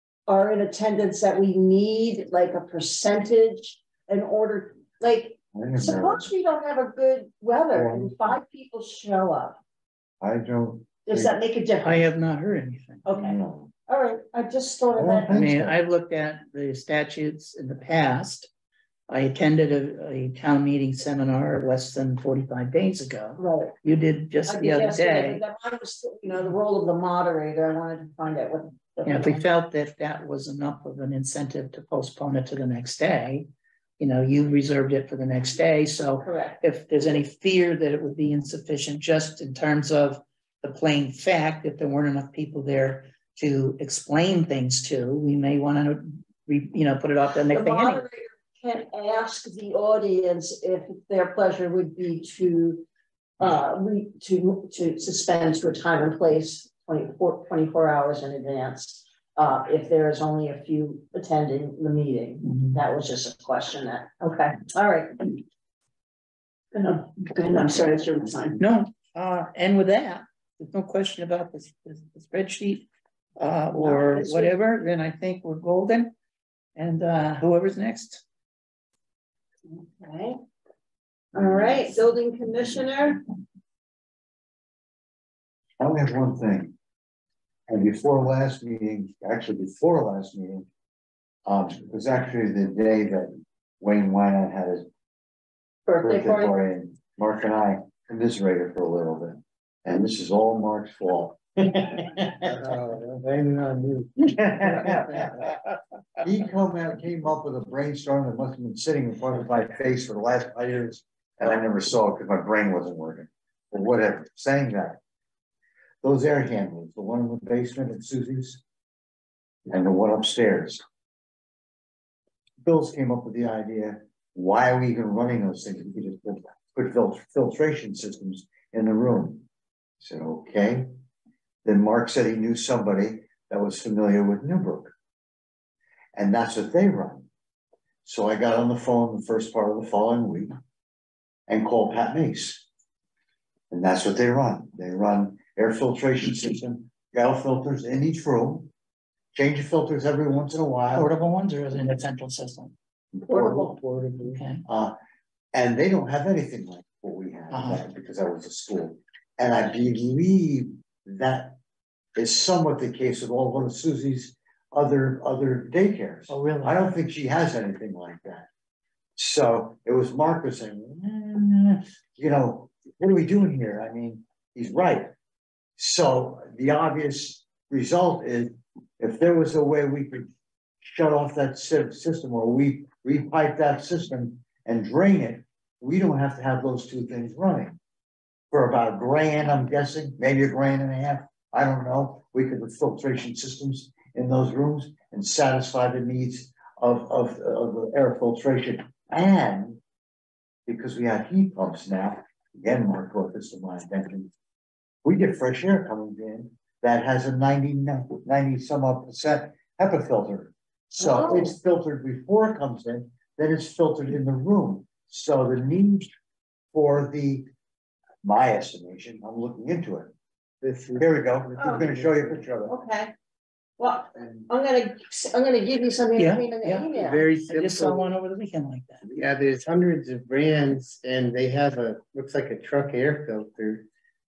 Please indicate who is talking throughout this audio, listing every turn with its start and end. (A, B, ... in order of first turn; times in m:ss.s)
0:00.3-0:09.6 A
0:05.5-0:06.3 B
0:07.7-0:08.3 B
0:10.2-0:11.3 B
0:11.0-0:12.1 A
0:11.8-0:13.0 C
0:13.0-0:15.4 A
0:13.1-0:13.7 B
0:14.9-0:15.8 B
0:15.3-0:18.5 C
0:19.1-0:25.4 C
0:23.4-0:23.7 A
0:24.5-0:29.4 A
0:29.0-0:33.5 C
0:34.0-0:48.0 C
0:36.2-0:36.6 A
0:47.5-0:52.8 A
0:53.4-1:05.4 A
1:02.4-1:02.8 C
1:06.7-1:08.6 A
1:08.6-1:16.1 C
1:13.7-1:14.5 A
1:16.8-1:18.2 C
1:19.7-1:20.4 A
1:21.3-1:23.3 A
1:21.4-1:21.7 B
1:25.8-1:26.7 B
1:27.7-1:30.7 B
1:31.4-1:34.9 B
1:35.9-1:36.5 A
1:36.0-1:42.8 B
1:42.4-1:45.6 D
1:44.2-1:45.6 B
1:46.2-1:55.0 B
1:56.0-1:58.6 B
1:59.7-2:00.8 B
2:02.6-2:09.5 B
2:10.0-2:10.9 B
2:11.6-2:14.9 B
2:16.1-2:17.3 B
2:18.0-2:20.6 B
2:21.5-2:22.6 B
2:23.7-2:28.7 B
2:29.3-2:31.1 B
2:30.9-2:32.7 C
2:33.2-2:33.6 B
2:33.3-2:33.8 A
2:33.3-2:34.4 D
2:34.2-2:34.6 C
2:34.6-2:35.0 B
2:35.5-2:41.6 B
2:37.5-2:37.8 C
2:42.2-2:48.5 B
2:46.3-2:46.9 C
2:49.2-2:55.1 B
2:55.8-3:00.3 B
3:00.8-3:07.8 B
3:08.5-3:19.8 B
3:20.6-3:24.3 B
3:25.0-3:36.1 B
3:31.0-3:31.5 A
3:36.7-3:37.4 B
3:38.2-3:40.1 B
3:40.6-3:42.5 D
3:41.0-3:42.7 B
3:41.6-3:41.9 A
3:42.7-3:43.1 A
3:43.8-3:47.3 A
3:44.2-3:44.5 D
3:46.2-3:46.9 C
3:46.9-3:48.1 D
3:47.5-3:49.0 C
3:49.1-3:53.8 D